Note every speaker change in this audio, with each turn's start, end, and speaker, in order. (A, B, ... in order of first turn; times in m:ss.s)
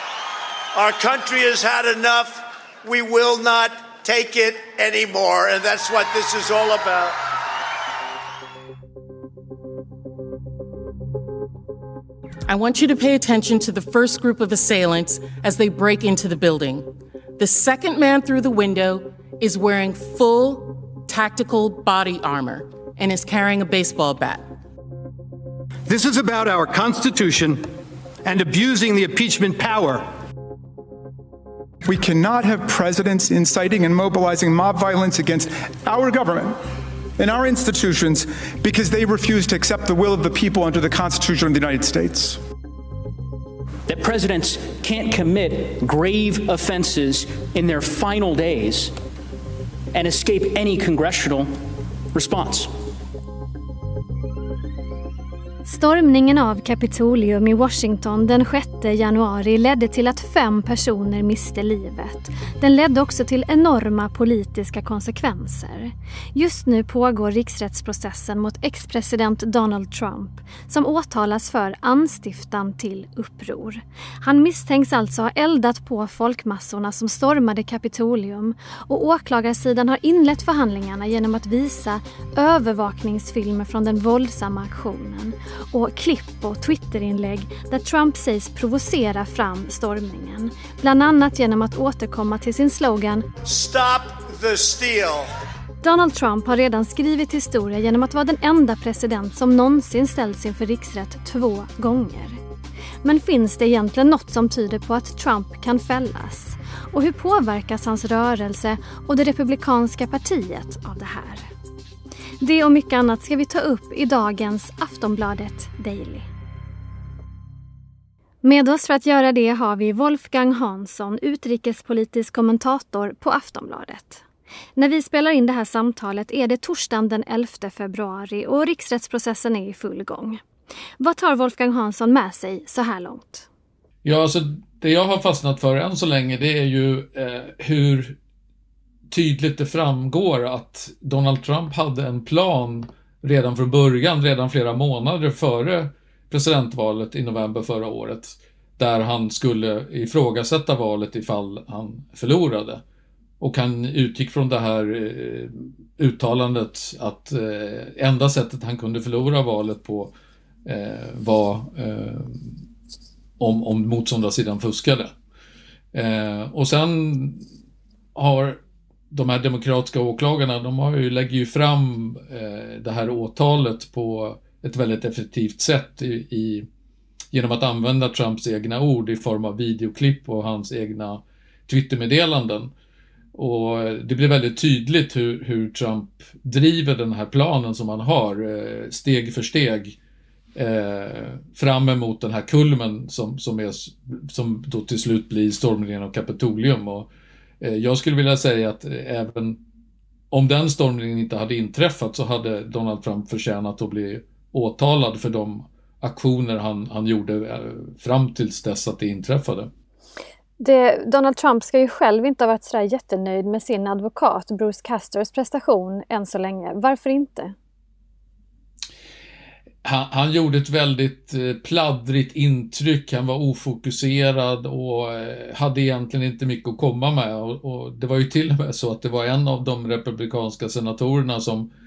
0:00.7-0:07.2 A
0:02.9-0:06.0 B
0:06.6-0:07.1 B
0:12.5-0:16.9 C
0:17.4-0:24.4 C
0:25.9-0:27.7 D
0:28.2-0:30.0 D
0:31.8-0:36.6 E
0:37.2-0:42.4 E
0:43.9-0:48.9 F
0:49.9-0:51.5 F
0:52.1-0:52.7 F
0:55.7-1:33.2 G
1:33.4-1:35.3 A
1:35.8-1:42.4 G
1:43.0-1:51.5 G
1:52.4-1:56.3 G
1:58.4-2:04.2 G
2:04.8-2:10.4 G
2:11.0-2:13.5 G
2:14.0-2:18.2 B
2:19.1-2:32.8 B
2:33.4-2:40.1 B
2:40.7-2:42.6 B
2:43.4-2:45.1 B
2:45.9-2:47.5 B
2:48.2-2:48.6 B
2:49.1-2:56.7 B
2:57.3-3:02.7 B
3:03.4-3:10.0 B
3:10.6-3:17.1 B
3:17.6-3:19.6 B
3:20.3-3:29.7 B
3:30.6-3:37.6 G
3:39.8-3:51.7 B